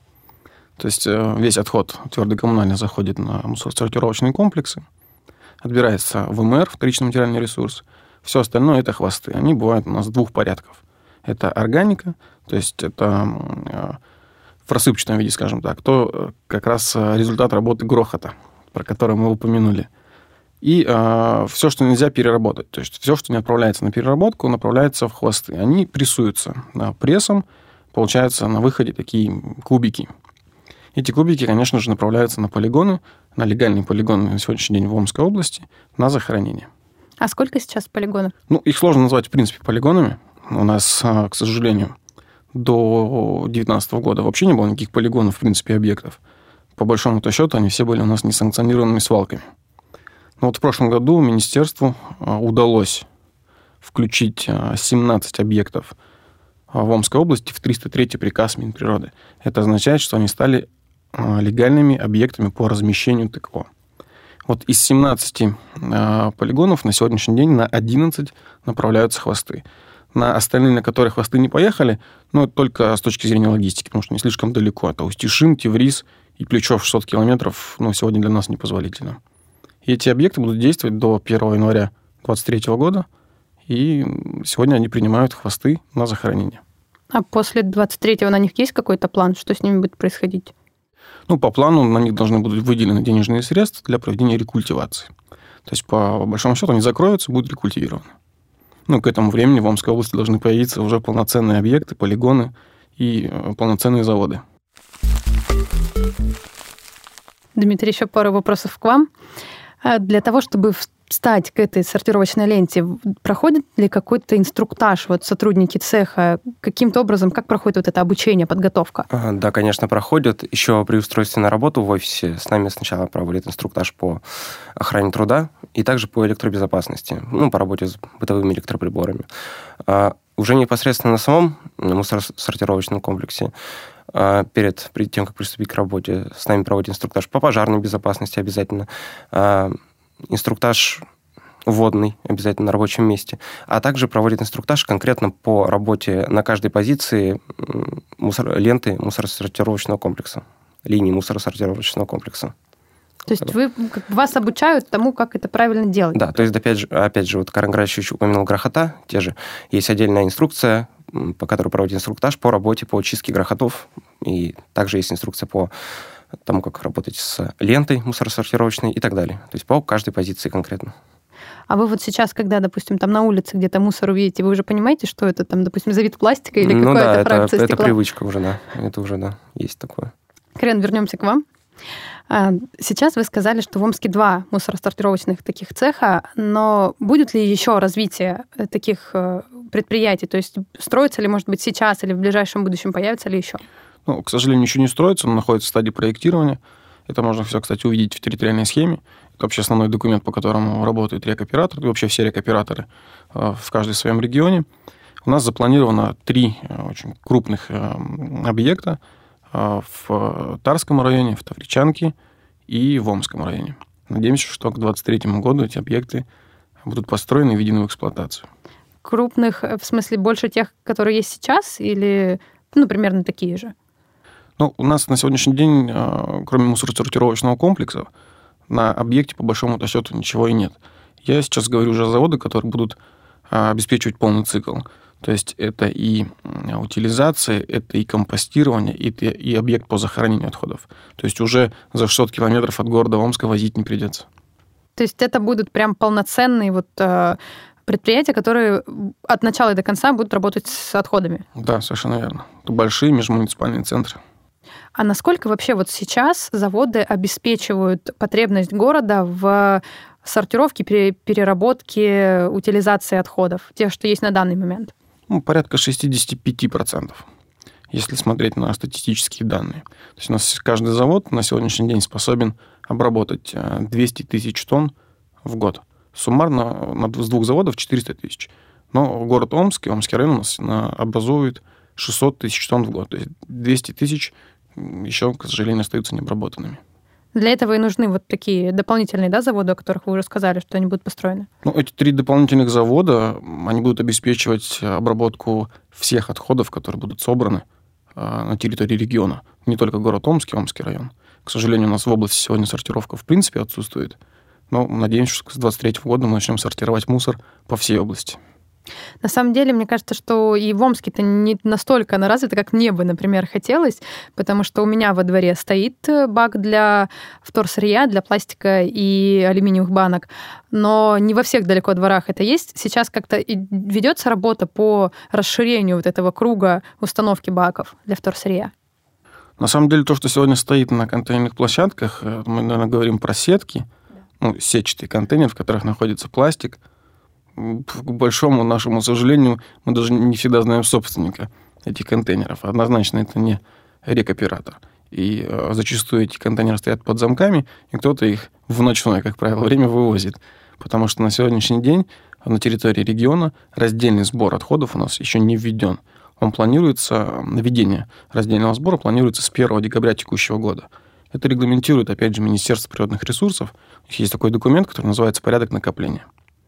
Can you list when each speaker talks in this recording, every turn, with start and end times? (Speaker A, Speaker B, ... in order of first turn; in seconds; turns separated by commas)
Speaker A: 0.8-4.8, Speaker A: 5.6-14.0, Speaker A: 14.7-19.9, Speaker A: 20.6-30.1, Speaker A: 30.9-36.7, Speaker B: 37.2-38.3, Speaker A: 38.5-41.9, Speaker A: 42.5-46.2, Speaker A: 46.8-49.4, Speaker A: 50.4-53.1, Speaker A: 53.8-55.9, Speaker A: 56.7-63.7, Speaker A: 64.5-69.6, Speaker A: 70.1-79.2, Speaker A: 79.8-83.0, Speaker A: 83.7-86.6, Speaker B: 87.1-90.5, Speaker A: 91.3-95.1, Speaker A: 95.7-98.0, Speaker A: 98.9-104.4, Speaker B: 107.5-109.1, Speaker B: 109.8-119.0, Speaker C: 119.1-124.2, Speaker C: 124.7-129.3, Speaker C: 129.8-133.5, Speaker C: 134.1-139.8, Speaker C: 140.3-141.0, Speaker C: 141.7-152.5, Speaker B: 153.3-156.2, Speaker C: 156.1-165.7, Speaker C: 166.4-170.9, Speaker B: 171.7-177.9, Speaker C: 176.6-180.1, Speaker B: 180.6-181.4, Speaker B: 182.3-193.6, Speaker A: 194.1-204.7, Speaker A: 205.2-209.0, Speaker A: 209.5-212.1, Speaker A: 212.7-216.2, Speaker A: 216.8-218.4, Speaker B: 219.0-223.7, Speaker A: 224.6-228.1, Speaker A: 228.7-233.0, Speaker A: 233.5-244.2, Speaker B: 244.9-251.4, Speaker A: 251.6-254.2, Speaker B: 254.9-264.9, Speaker A: 265.3-267.2, Speaker A: 267.9-274.9, Speaker A: 275.4-286.8, Speaker B: 287.3-291.5, Speaker A: 291.6-297.6, Speaker A: 298.1-304.2, Speaker A: 304.7-308.4, Speaker B: 309.2-328.7, Speaker A: 329.6-333.9, Speaker A: 334.4-336.8, Speaker A: 337.6-366.2